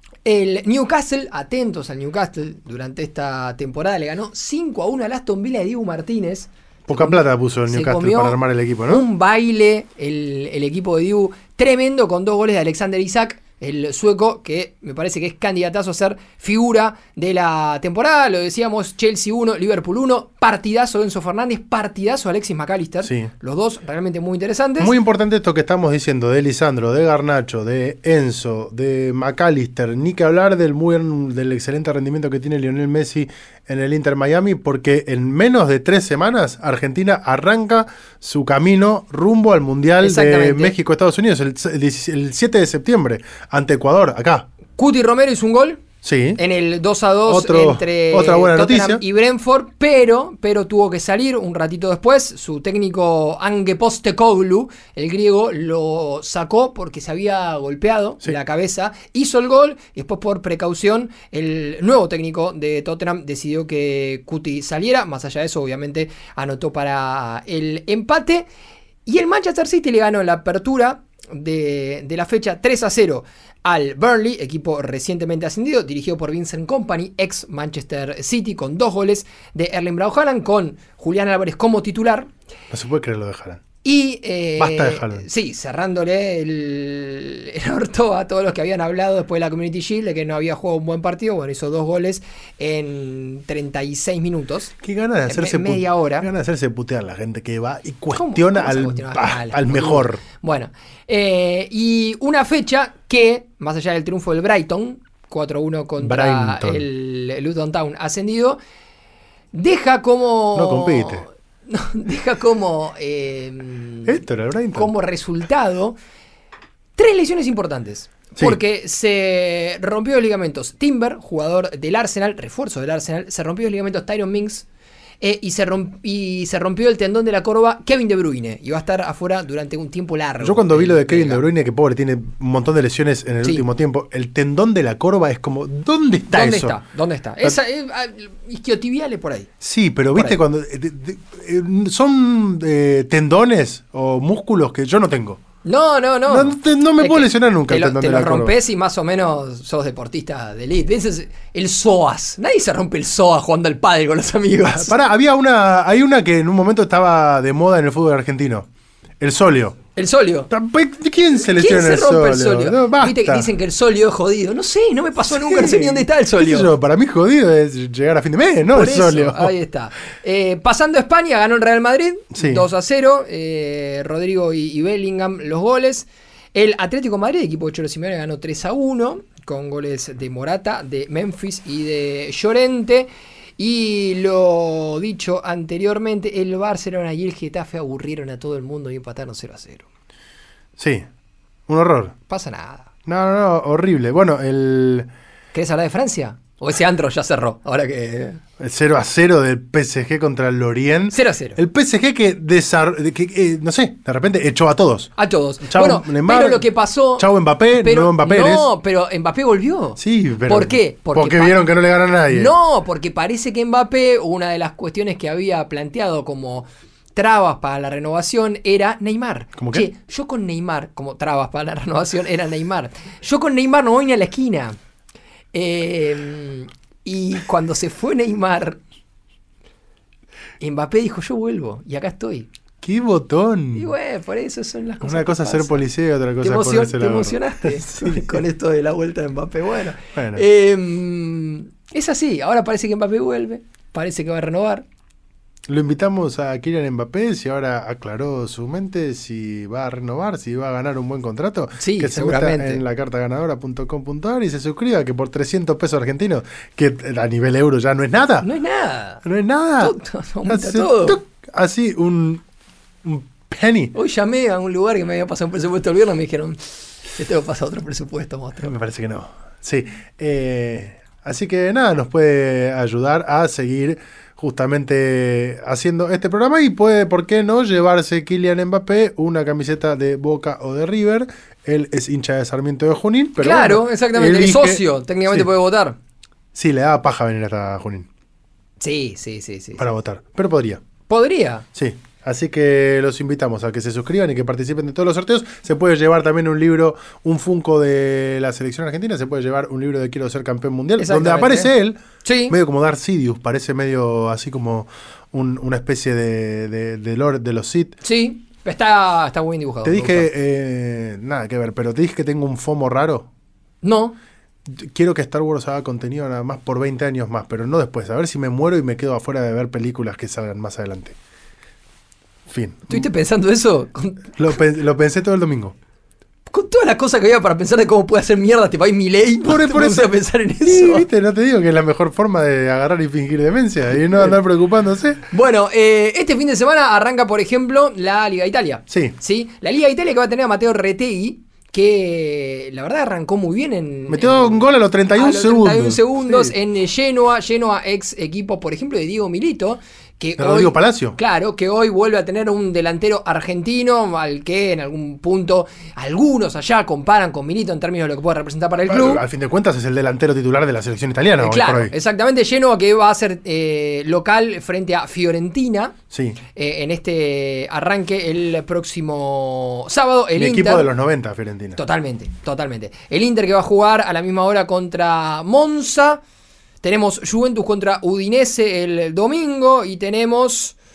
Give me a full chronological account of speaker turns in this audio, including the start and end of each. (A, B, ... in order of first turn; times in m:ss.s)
0:00.2-0:24.9 A
0:06.9-0:09.0 B
0:23.0-0:23.3 B
0:24.8-0:44.5 B
0:40.0-0:40.7 A
0:44.8-0:45.8 A
0:46.0-0:46.4 B
0:46.4-1:08.5 A
0:47.2-0:49.0 B
1:09.0-1:22.3 A
1:22.7-1:23.6 B
1:23.8-1:34.7 A
1:24.6-1:25.2 B
1:34.8-1:40.2 B
1:35.3-1:36.3 A
1:38.1-1:48.6 A
1:46.0-1:46.8 B
1:49.5-1:54.2 A
1:50.5-1:51.2 B
1:54.0-1:54.9 B
1:54.7-1:56.0 A
1:57.0-2:04.6 A
2:05.2-2:11.4 A
2:10.4-2:16.7 B
2:16.3-2:19.5 A
2:19.6-2:25.4 B
2:20.1-2:20.4 A
2:25.6-2:34.9 A
2:26.3-2:28.6 B
2:34.6-2:38.7 B
2:39.2-2:39.8 B
2:40.0-2:40.5 A
2:40.5-2:43.5 B
2:41.5-2:46.7 A
2:45.3-2:49.5 B
2:48.7-3:09.9 A
2:52.3-2:52.7 B
3:10.8-3:11.0 B
3:11.7-3:12.1 B
3:12.3-3:12.9 A
3:13.0-3:15.1 B
3:15.5-3:18.4 A
3:18.6-3:25.1 B
3:21.1-3:21.6 A
3:25.2-3:31.6 A
3:25.6-3:26.6 B
3:27.2-3:28.7 B
3:30.0-3:32.5 B
3:32.3-3:44.8 A
3:39.6-3:39.9 B
3:45.5-3:48.8 A
3:50.6-3:52.5 A
3:52.8-3:53.9 B
3:53.7-3:55.8 A
3:55.0-3:58.4 B
3:56.4-4:04.8 A
4:00.1-4:00.4 B
4:05.7-4:18.5 B
4:11.8-4:12.8 A
4:18.4-4:19.2 A
4:19.2-4:19.9 B
4:19.8-4:21.2 A
4:20.4-4:22.4 B
4:23.0-4:23.9 B
4:23.9-4:28.7 A
4:28.6-4:45.5 B
4:43.4-4:46.0 A
4:46.5-4:48.1 B
4:48.8-4:49.8 A
4:49.8-4:50.8 B
4:51.1-4:51.6 A
4:51.7-5:08.0 B
5:01.0-5:01.7 A
5:02.2-5:02.6 A
5:08.0-5:10.3 A
5:09.8-5:13.3 B
5:13.8-5:14.2 A
5:14.7-5:21.2 B
5:22.5-5:23.0 B
5:22.9-5:24.6 A
5:24.4-5:25.7 B
5:26.5-5:31.1 A
5:29.4-5:35.2 B
5:35.3-5:59.2 A
5:38.9-5:39.2 B
5:44.1-5:46.5 B
5:50.4-5:51.2 B
5:58.9-6:01.9 B
6:01.4-6:05.9 A
6:06.1-6:06.4 B
6:06.5-6:10.9 A
6:10.4-6:11.8 B
6:11.8-6:16.2 A
6:16.8-6:20.8 A